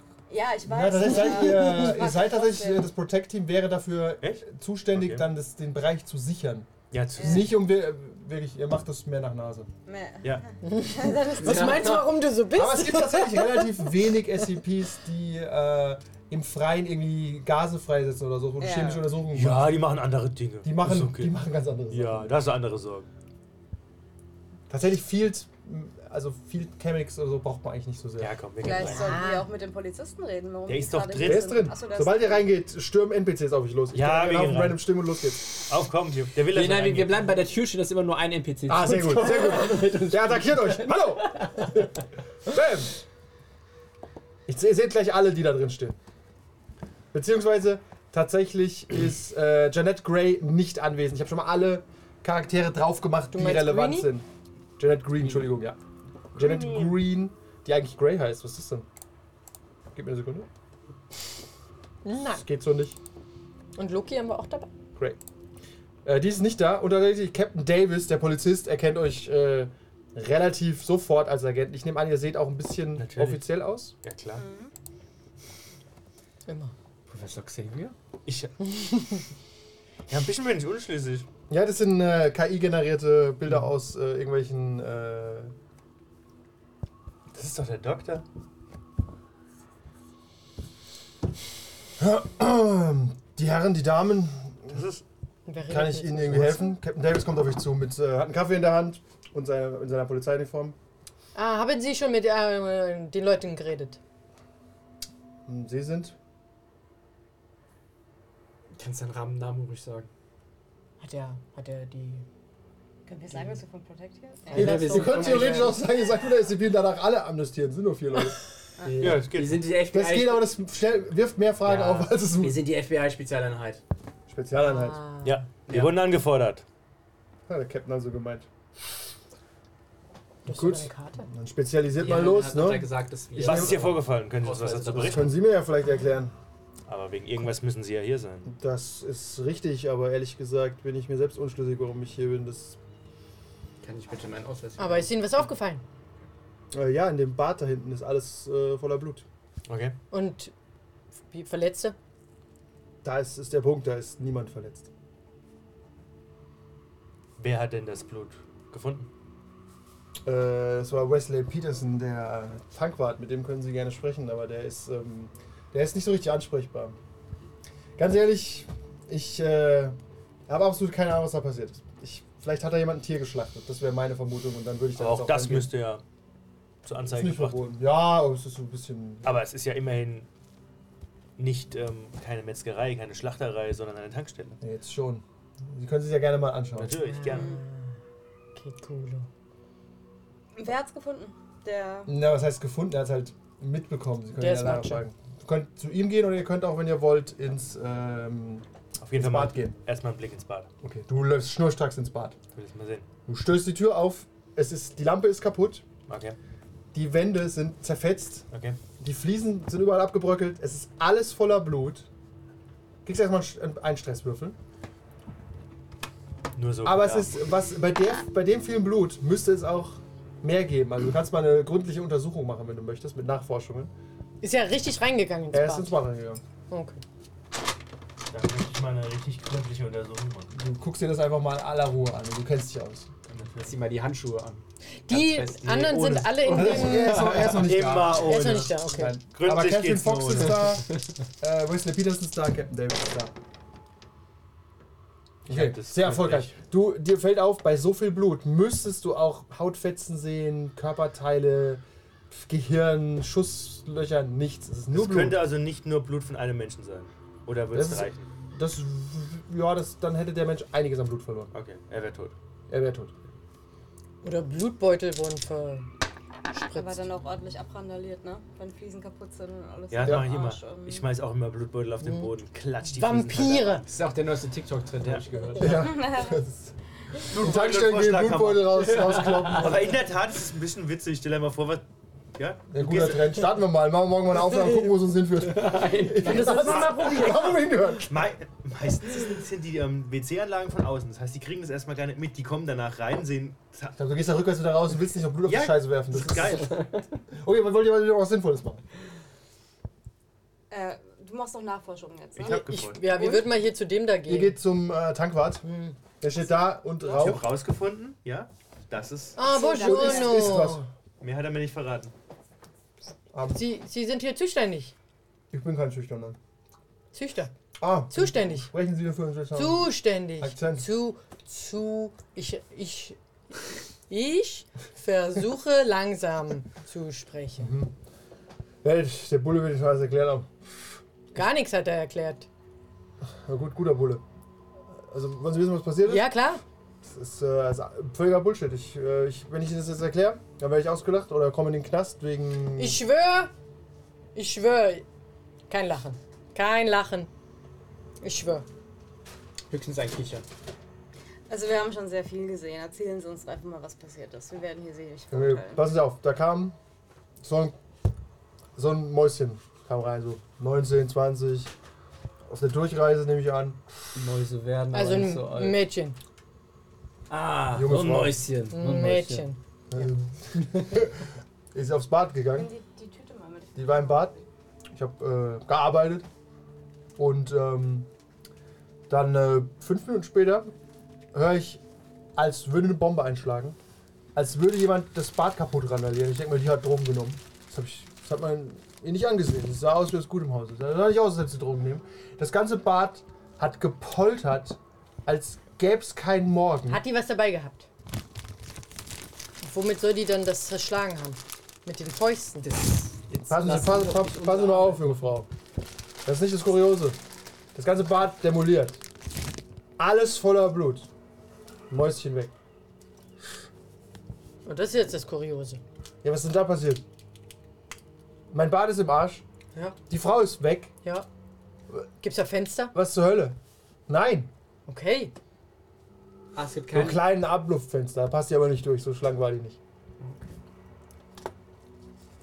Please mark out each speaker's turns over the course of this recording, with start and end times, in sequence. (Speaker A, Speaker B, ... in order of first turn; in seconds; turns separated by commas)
Speaker A: 0.3-2.9, Speaker B: 0.7-9.7, Speaker C: 4.2-5.3, Speaker C: 6.9-7.5, Speaker A: 7.2-7.5, Speaker A: 9.9-12.0, Speaker D: 10.6-13.9, Speaker E: 11.4-12.1, Speaker B: 12.5-19.8, Speaker A: 18.6-19.1, Speaker C: 19.3-21.4, Speaker B: 20.6-22.4, Speaker C: 21.9-23.1, Speaker B: 24.7-28.4, Speaker C: 28.2-29.1, Speaker A: 28.6-32.5, Speaker D: 28.8-29.5, Speaker C: 30.7-31.6, Speaker B: 31.2-35.5, Speaker C: 33.9-34.9, Speaker C: 35.5-37.3, Speaker E: 36.5-41.9, Speaker B: 38.7-42.9, Speaker B: 44.5-46.0, Speaker B: 47.1-54.3, Speaker D: 53.3-54.1, Speaker B: 54.8-55.8, Speaker B: 56.4-58.9, Speaker A: 56.4-57.0, Speaker B: 59.9-60.5, Speaker D: 62.0-62.4, Speaker B: 62.4-63.0, Speaker D: 63.8-64.7, Speaker B: 66.0-74.0, Speaker C: 73.0-73.5, Speaker C: 74.0-74.4, Speaker A: 74.4-74.7, Speaker D: 76.5-76.7, Speaker E: 77.1-78.0, Speaker C: 78.3-78.6, Speaker C: 80.1-81.3, Speaker B: 81.5-85.5, Speaker C: 87.3-88.2, Speaker B: 92.0-94.8, Speaker C: 94.7-95.0, Speaker D: 95.5-96.8, Speaker B: 95.7-100.8, Speaker D: 101.3-104.0, Speaker B: 105.5-106.2, Speaker E: 108.8-110.1, Speaker D: 111.0-112.2, Speaker A: 113.1-115.6, Speaker E: 114.5-115.8, Speaker B: 114.5-119.3, Speaker D: 114.8-115.7, Speaker A: 118.8-119.1, Speaker C: 119.0-119.7, Speaker E: 119.2-120.5, Speaker B: 119.9-122.6, Speaker E: 121.6-123.8, Speaker B: 124.3-125.0, Speaker D: 124.6-125.4, Speaker C: 125.2-126.7, Speaker E: 125.7-125.9, Speaker B: 127.5-128.5, Speaker B: 130.4-133.9, Speaker D: 130.5-131.3, Speaker E: 132.0-135.3, Speaker C: 133.4-135.3, Speaker B: 135.0-136.3, Speaker C: 136.9-138.5, Speaker B: 138.5-142.8, Speaker E: 143.8-145.5, Speaker D: 144.8-145.8, Speaker B: 146.7-149.3, Speaker C: 149.7-150.0, Speaker D: 150.1-150.5, Speaker D: 151.3-152.0, Speaker B: 153.0-154.9, Speaker C: 157.4-159.1, Speaker B: 160.2-167.0, Speaker B: 168.0-170.0, Speaker B: 170.5-175.7, Speaker C: 175.0-176.0, Speaker C: 176.8-177.6, Speaker B: 177.1-179.4, Speaker C: 179.2-180.3, Speaker C: 181.4-184.6, Speaker B: 184.6-186.9, Speaker C: 186.8-187.5, Speaker D: 187.0-188.0, Speaker A: 187.3-187.6, Speaker D: 188.6-189.3, Speaker A: 190.6-192.2, Speaker B: 192.1-199.8, Speaker D: 194.4-195.0, Speaker C: 199.0-200.7, Speaker B: 200.8-202.4, Speaker C: 202.5-203.1, Speaker B: 203.3-205.8, Speaker C: 206.1-206.4, Speaker B: 206.9-208.5, Speaker C: 208.5-208.8, Speaker B: 209.0-212.1, Speaker B: 213.1-214.6, Speaker C: 216.6-217.3, Speaker B: 216.8-223.9, Speaker D: 224.4-226.0, Speaker B: 225.5-226.4, Speaker D: 226.7-227.0, Speaker C: 228.3-230.5, Speaker B: 230.5-233.1, Speaker C: 233.3-233.7, Speaker E: 233.6-237.7, Speaker D: 235.1-237.5, Speaker C: 235.7-240.8, Speaker B: 236.5-240.9, Speaker D: 238.1-239.2, Speaker B: 241.4-243.3, Speaker C: 245.5-246.6, Speaker B: 245.5-255.4, Speaker C: 254.9-258.3, Speaker B: 257.7-261.5, Speaker C: 261.5-262.4, Speaker B: 262.7-263.1, Speaker D: 264.2-265.9, Speaker D: 266.5-267.1, Speaker A: 266.7-271.1, Speaker C: 269.9-274.0, Speaker D: 272.0-272.3, Speaker D: 272.9-273.8, Speaker E: 273.9-275.9, Speaker B: 275.6-276.7, Speaker A: 275.6-276.4, Speaker B: 277.3-280.0, Speaker C: 277.3-283.2, Speaker E: 278.9-279.7, Speaker B: 282.7-288.1, Speaker E: 285.4-286.7, Speaker D: 286.2-287.6, Speaker C: 286.6-287.1, Speaker C: 288.1-294.0, Speaker B: 294.0-296.8, Speaker C: 295.5-296.9, Speaker B: 297.4-298.8, Speaker A: 300.7-303.5, Speaker C: 302.4-303.1, Speaker D: 302.4-304.6, Speaker B: 304.3-307.5, Speaker A: 306.4-307.4, Speaker C: 307.2-309.4, Speaker D: 309.4-310.8, Speaker A: 309.4-310.6, Speaker B: 309.8-310.9, Speaker C: 311.2-312.1, Speaker B: 313.3-313.6, Speaker D: 313.5-314.9, Speaker B: 315.5-316.4, Speaker D: 317.1-317.5, Speaker B: 317.8-320.9, Speaker D: 318.1-318.7, Speaker D: 319.5-323.2, Speaker D: 324.1-327.7, Speaker B: 327.6-327.9, Speaker B: 328.8-330.5, Speaker D: 331.3-332.5, Speaker B: 333.4-334.2, Speaker B: 334.9-336.3, Speaker D: 336.1-336.6, Speaker B: 337.0-343.0, Speaker D: 342.8-343.5, Speaker D: 344.4-345.1, Speaker D: 345.7-347.3, Speaker D: 348.2-348.6, Speaker E: 349.7-350.4, Speaker A: 351.5-355.8, Speaker B: 355.3-356.8, Speaker B: 357.4-357.8, Speaker B: 358.8-361.7, Speaker B: 362.5-363.8, Speaker E: 364.1-365.8, Speaker D: 364.9-366.2, Speaker E: 367.3-369.5, Speaker B: 367.7-368.4, Speaker D: 368.7-369.6, Speaker B: 369.9-372.7, Speaker E: 370.6-370.9, Speaker A: 372.5-374.4, Speaker B: 373.8-374.4, Speaker B: 374.9-376.3, Speaker B: 377.2-378.1, Speaker B: 379.1-380.7, Speaker B: 381.3-381.8, Speaker B: 382.4-383.8, Speaker B: 384.3-397.0, Speaker D: 396.9-397.9, Speaker D: 399.6-402.7, Speaker E: 402.6-405.2, Speaker B: 403.5-405.5, Speaker B: 406.2-407.2, Speaker B: 407.7-409.0, Speaker B: 410.0-411.1, Speaker B: 411.9-412.5, Speaker D: 414.6-415.8, Speaker B: 416.2-417.0, Speaker B: 418.5-419.4, Speaker B: 420.1-420.9, Speaker D: 422.2-422.9, Speaker B: 422.9-423.6, Speaker B: 424.1-424.5, Speaker D: 424.9-425.3, Speaker E: 426.6-427.2, Speaker B: 426.9-429.8